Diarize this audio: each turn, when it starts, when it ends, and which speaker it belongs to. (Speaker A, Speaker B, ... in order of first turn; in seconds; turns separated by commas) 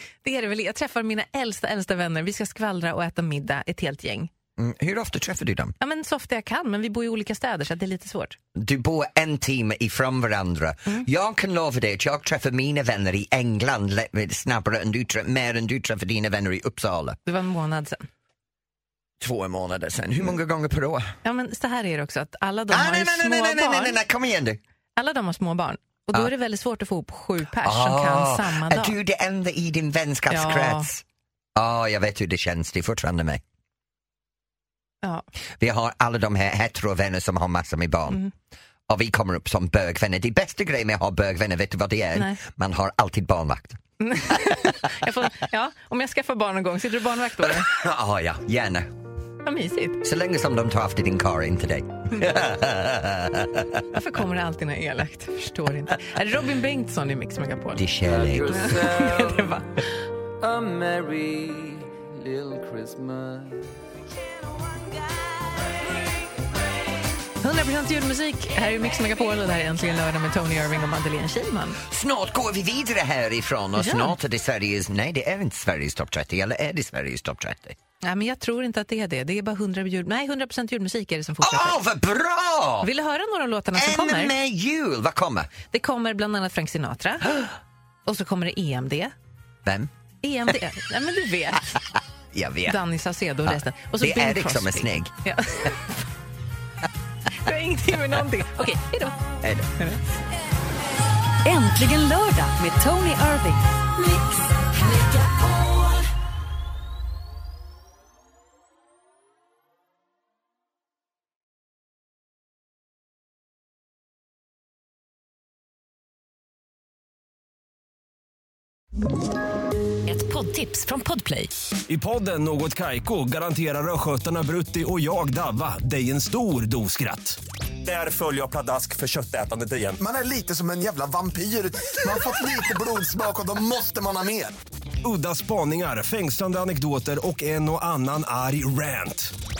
Speaker A: 0.2-4.3, Speaker B: 4.6-5.7, Speaker A: 5.8-8.4, Speaker B: 8.5-17.2, Speaker A: 17.2-18.1, Speaker B: 19.2-21.1, Speaker A: 21.2-24.0, Speaker B: 22.7-24.6, Speaker A: 24.9-28.9, Speaker B: 27.6-31.0, Speaker A: 30.3-30.9, Speaker B: 31.5-33.4, Speaker B: 35.6-38.3, Speaker B: 38.9-43.8, Speaker A: 42.1-42.4, Speaker A: 44.0-47.7, Speaker B: 47.4-48.9, Speaker A: 49.4-50.0, Speaker B: 50.0-53.8, Speaker A: 53.9-57.9, Speaker B: 57.8-58.6, Speaker C: 58.0-63.7, Speaker A: 58.5-59.8, Speaker A: 67.4-71.8, Speaker B: 71.9-77.8, Speaker A: 73.8-74.2, Speaker A: 78.0-81.8, Speaker B: 81.4-82.9, Speaker A: 82.8-84.3, Speaker B: 83.7-85.5, Speaker A: 85.7-87.4, Speaker A: 88.0-89.1, Speaker B: 89.6-89.9, Speaker A: 90.2-91.8, Speaker B: 92.3-92.8, Speaker A: 92.7-95.9, Speaker B: 93.4-95.1, Speaker A: 97.3-100.0, Speaker B: 99.4-99.7, Speaker D: 101.4-103.6, Speaker D: 120.1-121.5, Speaker E: 121.9-130.0, Speaker F: 130.0-134.5, Speaker E: 135.0-139.3